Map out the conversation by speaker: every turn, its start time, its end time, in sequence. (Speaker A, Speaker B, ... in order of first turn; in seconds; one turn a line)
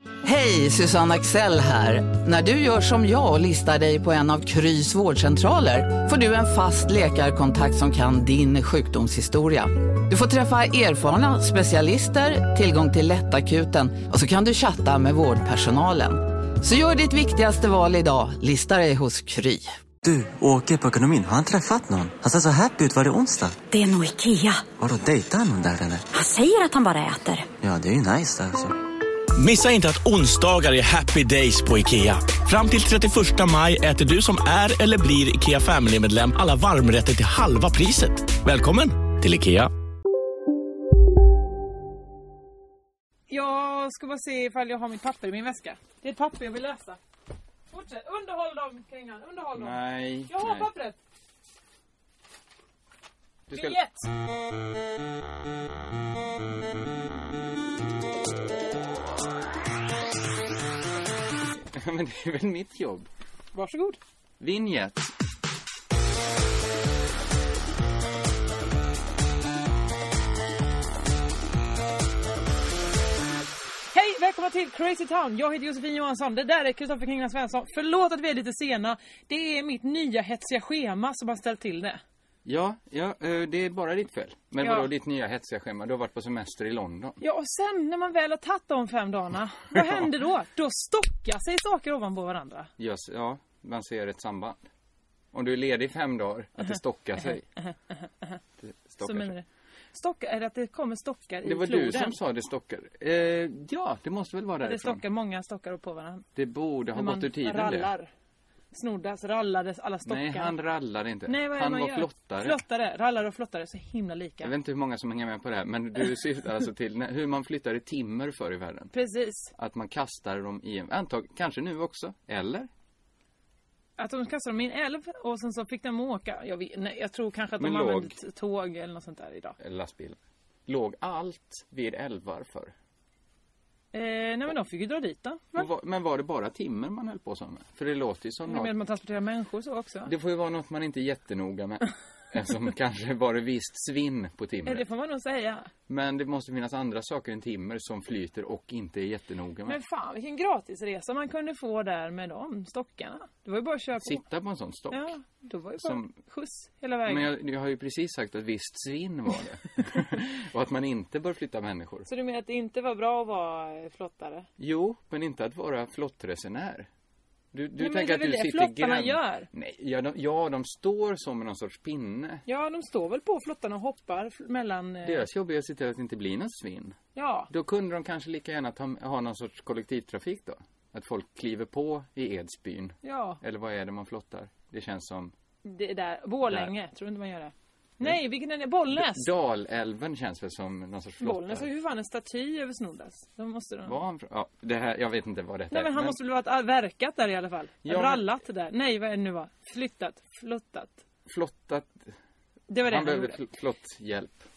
Speaker A: 0.2-19.8
Speaker B: 20.0-23.6
Speaker C: 23.7-24.7
Speaker B: 24.8-26.1
Speaker C: 26.1-27.5
Speaker B: 27.6-28.7
Speaker D: 29.4-39.7
Speaker E: 43.3-47.0
Speaker E: 47.7-51.0
Speaker F: 49.5-50.7
Speaker F: 53.5-53.8
Speaker E: 53.5-54.1
Speaker F: 61.6-63.1
Speaker E: 63.5-64.0
Speaker F: 64.4-65.1
Speaker E: 73.9-82.0
Speaker F: 82.4-87.2
Speaker E: 84.6-84.9
Speaker E: 87.2-92.7
Speaker F: 89.7-90.0
Speaker F: 92.8-94.7
Speaker F: 95.3-97.4
Speaker E: 97.3-98.4
Speaker F: 98.6-99.3
Speaker E: 99.0-102.1
Speaker F: 101.4-105.0
Speaker E: 104.6-106.2
Speaker F: 106.3-107.9
Speaker E: 106.9-108.1
Speaker E: 108.7-110.5
Speaker F: 110.0-112.6
Speaker E: 111.2-114.5
Speaker F: 114.4-118.9
Speaker E: 118.9-119.5
Speaker F: 119.5-122.7
Speaker E: 124.0-129.6
Speaker F: 127.6-128.2
Speaker F: 129.6-132.7
Speaker E: 133.9-135.7
Speaker F: 135.5-138.7
Speaker E: 138.4-140.1
Speaker F: 140.1-144.8
Speaker E: 144.7-145.7
Speaker F: 145.9-149.8
Speaker E: 149.7-154.2
Speaker F: 154.0-155.2
Speaker E: 154.9-157.3
Speaker F: 155.8-156.1
Speaker F: 157.1-162.1
Speaker E: 162.1-164.5
Speaker F: 164.6-166.9
Speaker F: 167.5-172.4
Speaker E: 167.8-169.5
Speaker E: 172.4-175.2
Speaker F: 175.0-177.0
Speaker E: 177.1-177.5
Speaker F: 177.5-185.3
Speaker E: 183.0-183.4
Speaker E: 185.6-189.3
Speaker F: 186.5-186.7
Speaker F: 188.9-191.7
Speaker E: 191.2-193.9
Speaker F: 193.8-196.2
Speaker E: 195.7-201.0
Speaker F: 197.8-198.2
Speaker F: 201.2-202.1
Speaker E: 202.7-203.4
Speaker F: 202.8-204.4